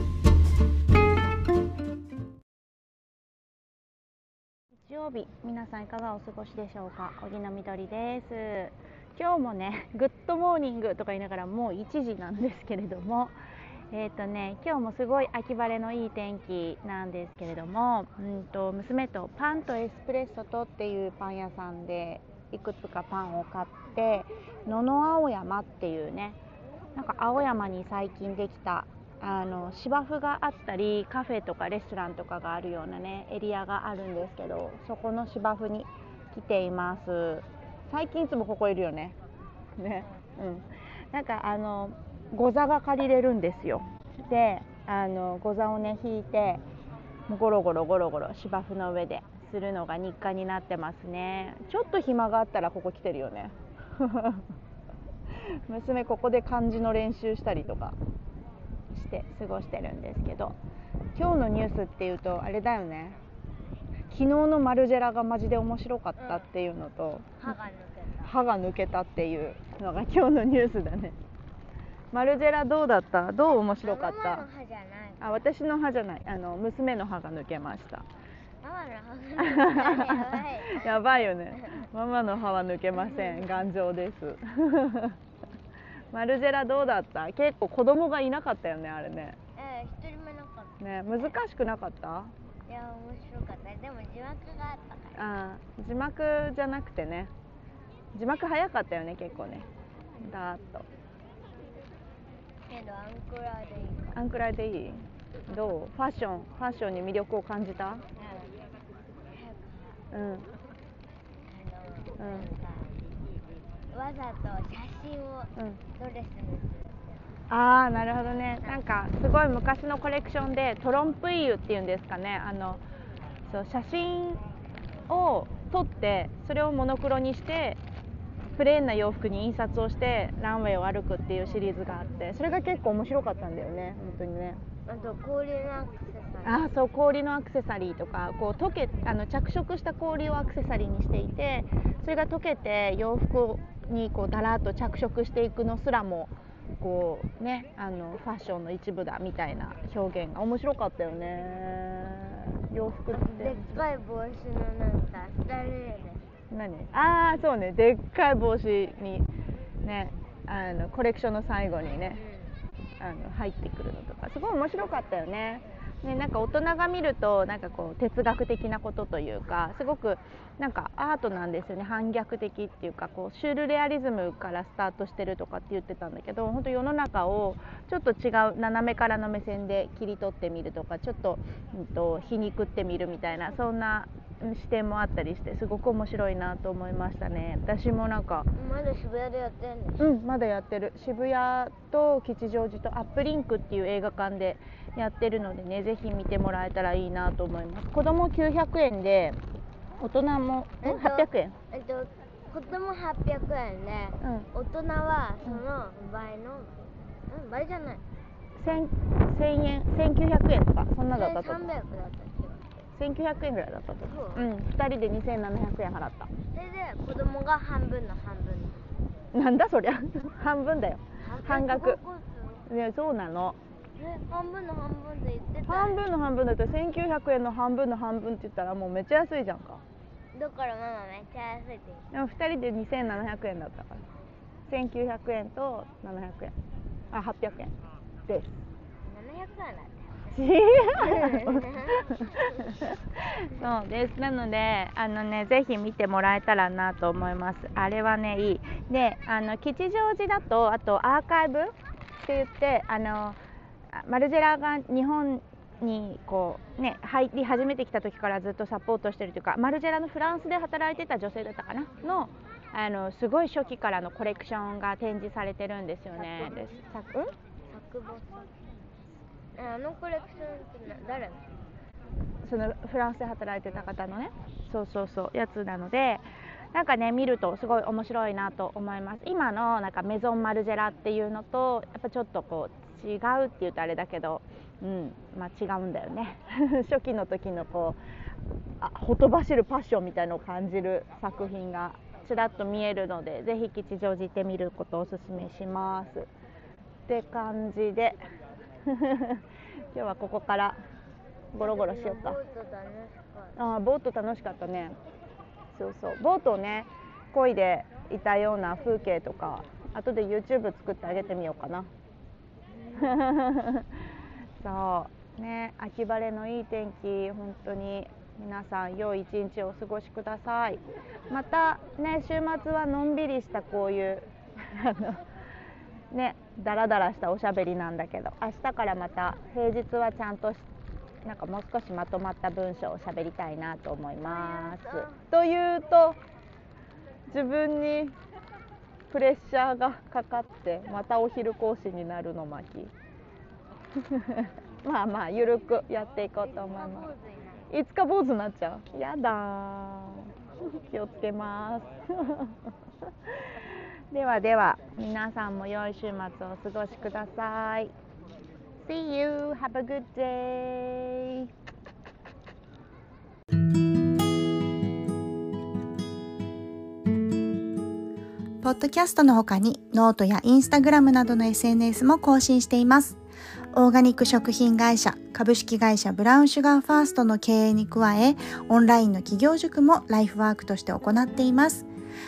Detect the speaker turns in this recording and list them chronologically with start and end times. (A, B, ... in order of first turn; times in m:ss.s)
0:04.8-0:13.3 A
0:13.9-0:26.4 A
0:27.0-0:39.2 A
0:39.8-0:46.6 A
0:47.3-0:54.4 A
0:55.4-0:58.0 A
0:58.9-1:00.6 A
1:01.1-1:03.2 A
1:04.1-1:07.6 A
1:06.2-1:06.5 B
1:07.4-1:08.3 B
1:08.2-1:11.2 A
1:12.1-1:14.4 A
1:13.6-1:15.4 B
1:15.2-1:18.0 A
1:18.6-1:21.9 B
1:19.5-1:25.2 A
1:22.9-1:23.5 B
1:26.1-1:29.4 A
1:29.6-1:31.4 B
1:30.8-1:32.3 A
1:32.7-1:35.2 B
1:35.1-1:37.3 A
1:38.1-1:39.7 A
1:40.2-1:40.9 A
1:42.7-1:44.2 B
1:44.1-1:48.0 A
1:48.2-1:48.5 B
1:49.3-1:50.0 B
1:50.1-1:50.5 A
1:51.4-1:52.9 B
1:52.2-1:52.5 A
1:53.9-1:57.2 B
1:55.6-1:55.8 A
1:57.5-2:02.8 A
1:57.9-1:59.2 B
2:03.4-2:04.4 A
2:05.1-2:07.8 A
2:08.5-2:14.6 A
2:14.8-2:16.7 B
2:16.4-2:33.8 A
2:33.1-2:36.3 B
2:36.5-2:39.3 A
2:39.8-2:42.2 A
2:42.1-2:42.5 B
2:43.0-3:08.5 A
3:08.5-3:10.0 B
3:10.0-3:19.4 A
3:20.0-3:21.6 A
3:20.8-3:26.7 B
3:24.2-3:24.5 A
3:27.3-3:28.0 B
3:28.6-3:31.7 A
3:31.1-3:32.6 B
3:32.9-3:36.3 A
3:34.0-3:34.4 B
3:36.5-3:38.9 B
3:39.3-3:42.0 A
3:41.2-3:42.7 B
3:42.7-3:43.6 A
3:44.0-3:46.0 B
3:45.6-3:49.8 A
3:50.3-3:52.1 B
3:52.1-3:54.0 A
3:54.7-3:56.6 A
3:57.1-3:57.7 A
3:58.3-3:58.6 A
3:59.0-4:00.4 B
4:00.3-4:13.4 A
4:00.9-4:02.7 B
4:13.9-4:27.3 A
4:26.1-4:26.7 B
4:27.7-4:28.5 B
4:29.6-4:31.4 B
4:32.4-4:48.0 A
4:48.8-4:56.3 A
4:57.1-4:58.2 A
4:58.9-4:59.4 A
4:59.9-5:00.8 A
5:01.5-5:02.4 A
5:01.6-5:03.6 B
5:03.6-5:05.0 A
5:05.7-5:11.9 A
5:12.7-5:13.2 B
5:13.0-5:13.9 A
5:14.6-5:25.2 A
5:26.1-5:30.6 A
5:31.2-5:36.2 A
5:34.2-5:35.2 B
5:37.3-5:38.2 A
5:39.1-5:42.9 A
5:44.1-5:47.1 A
5:46.6-5:47.7 B
5:47.7-5:50.3 A
5:50.9-5:52.6 A
5:53.6-5:57.9 A
5:58.8-6:01.5 A
6:08.6-6:13.2 C
6:13.7-6:21.9 C